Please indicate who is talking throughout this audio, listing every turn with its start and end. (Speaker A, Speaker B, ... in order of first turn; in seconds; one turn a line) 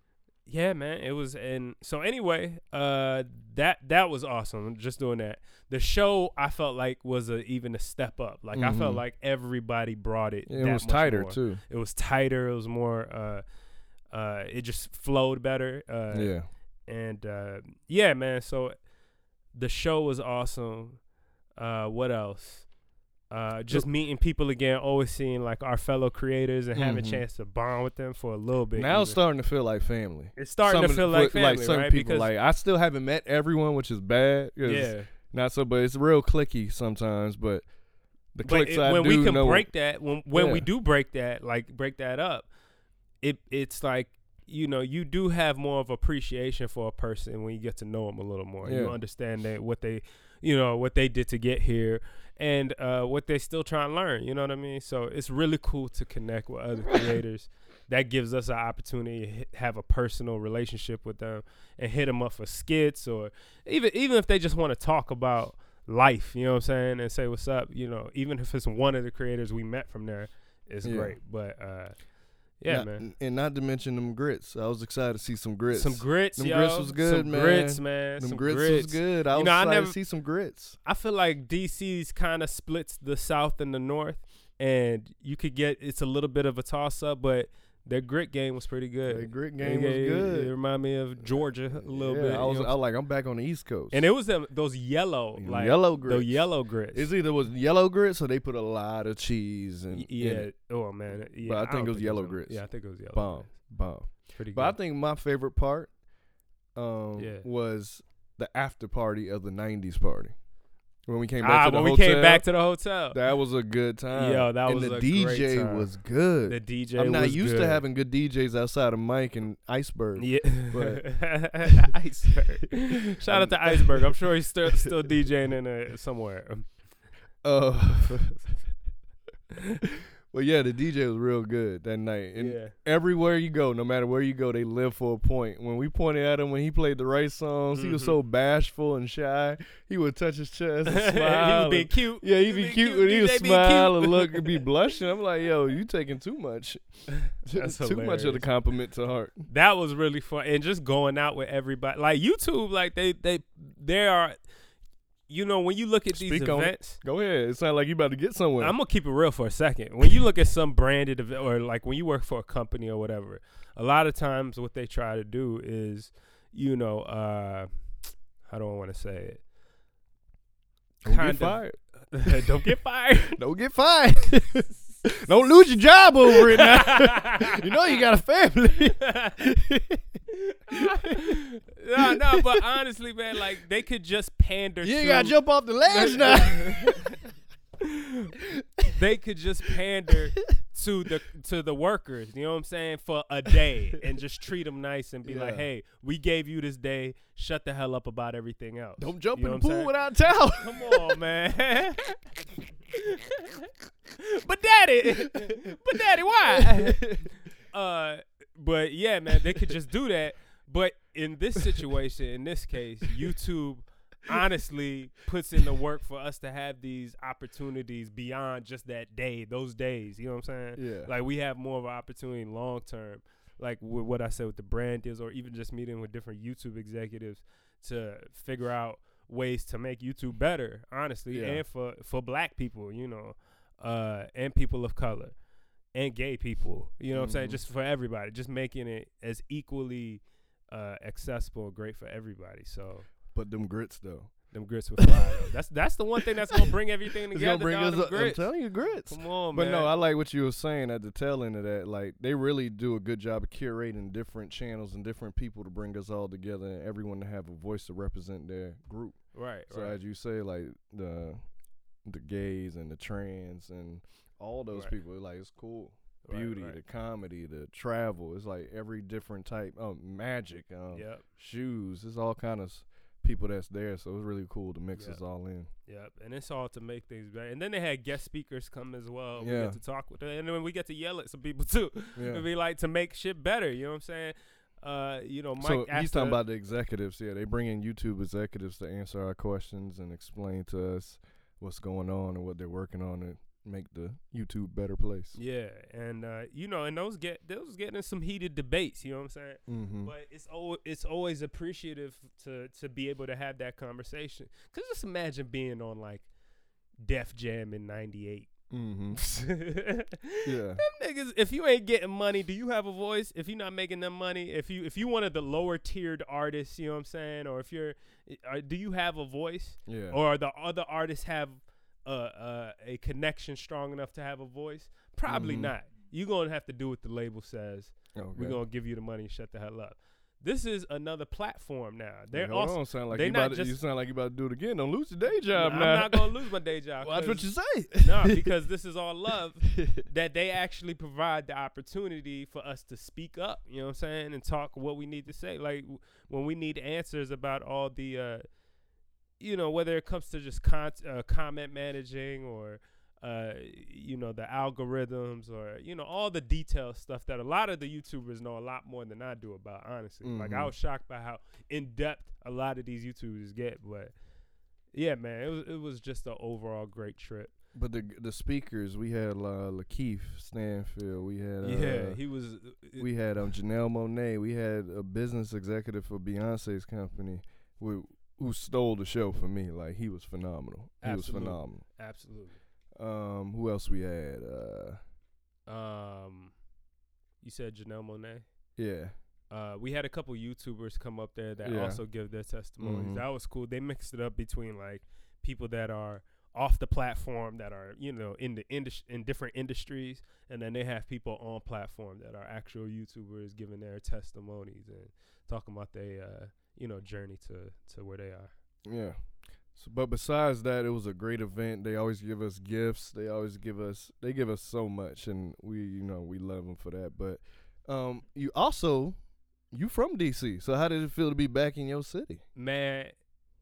Speaker A: 0.5-13.4
Speaker B: 8.5-9.0
Speaker B: 10.5-11.6
Speaker A: 14.1-16.3
Speaker B: 16.1-16.5
Speaker A: 16.9-18.8
Speaker A: 19.5-21.0
Speaker A: 21.6-22.7
Speaker A: 23.3-29.2
Speaker B: 26.7-27.2
Speaker B: 28.8-37.7
Speaker A: 30.4-32.3
Speaker A: 34.6-35.1
Speaker B: 38.3-39.7
Speaker A: 38.4-42.5
Speaker B: 40.3-40.7
Speaker A: 43.2-72.0
Speaker B: 48.6-49.0
Speaker B: 70.8-71.2
Speaker A: 72.6-73.0
Speaker B: 72.7-80.8
Speaker A: 75.7-80.0
Speaker A: 80.8-92.8
Speaker B: 89.1-90.5
Speaker B: 91.7-94.1
Speaker A: 93.9-97.1
Speaker B: 95.4-100.5
Speaker A: 99.9-103.6
Speaker B: 101.4-105.9
Speaker A: 104.3-104.8
Speaker B: 106.8-110.3
Speaker A: 107.2-107.4
Speaker B: 111.0-112.5
Speaker A: 111.4-113.2
Speaker B: 113.1-121.1
Speaker A: 114.1-115.9
Speaker A: 116.5-117.8
Speaker A: 120.2-126.8
Speaker B: 123.2-124.9
Speaker B: 127.4-128.5
Speaker B: 130.3-149.5
Speaker A: 132.3-132.7
Speaker A: 137.7-138.2
Speaker A: 140.8-144.6
Speaker A: 147.4-148.5
Speaker A: 149.5-154.4
Speaker A: 155.3-157.0
Speaker B: 156.1-158.7
Speaker A: 158.6-167.7
Speaker A: 168.4-169.4
Speaker B: 171.0-172.5
Speaker A: 171.0-173.4
Speaker B: 173.3-180.0
Speaker A: 176.5-177.6
Speaker A: 179.0-179.3
Speaker B: 180.7-181.4
Speaker A: 180.7-187.2
Speaker B: 182.0-182.7
Speaker B: 184.8-187.2
Speaker B: 188.4-188.9
Speaker A: 188.9-199.9
Speaker B: 195.2-195.7
Speaker B: 199.0-201.2
Speaker A: 200.6-202.2
Speaker A: 202.9-203.6
Speaker A: 204.2-207.1
Speaker B: 205.2-207.3
Speaker A: 207.7-235.3
Speaker B: 220.8-221.1
Speaker B: 231.3-231.6
Speaker A: 235.9-243.1
Speaker B: 237.1-237.6
Speaker B: 243.3-245.2
Speaker A: 244.5-249.9
Speaker B: 246.2-246.6
Speaker B: 247.3-261.4
Speaker A: 259.3-260.0
Speaker B: 262.0-275.7
Speaker A: 266.2-266.8
Speaker A: 270.9-271.2
Speaker A: 274.9-275.2
Speaker A: 275.9-286.4
Speaker B: 279.4-279.8
Speaker B: 282.1-282.4
Speaker B: 285.6-295.4
Speaker A: 295.4-306.3
Speaker B: 299.7-300.1
Speaker A: 307.0-308.5
Speaker B: 308.7-309.2
Speaker A: 309.1-333.8
Speaker B: 310.4-310.8
Speaker B: 319.9-320.2
Speaker B: 325.3-325.7
Speaker B: 328.1-328.6
Speaker B: 332.3-336.3
Speaker A: 335.5-348.4
Speaker B: 337.0-338.5
Speaker B: 339.8-340.0
Speaker A: 349.4-364.1
Speaker B: 360.2-360.7
Speaker A: 364.9-367.5
Speaker B: 367.7-372.2
Speaker A: 371.6-373.1
Speaker B: 373.0-381.8
Speaker A: 381.0-382.6
Speaker B: 382.9-385.0
Speaker A: 385.7-386.5
Speaker A: 387.4-388.4
Speaker B: 388.8-389.1
Speaker A: 389.5-408.5
Speaker B: 391.6-392.0
Speaker B: 392.8-393.2
Speaker B: 408.8-409.2
Speaker B: 409.7-419.2
Speaker B: 419.7-422.4
Speaker A: 422.6-423.1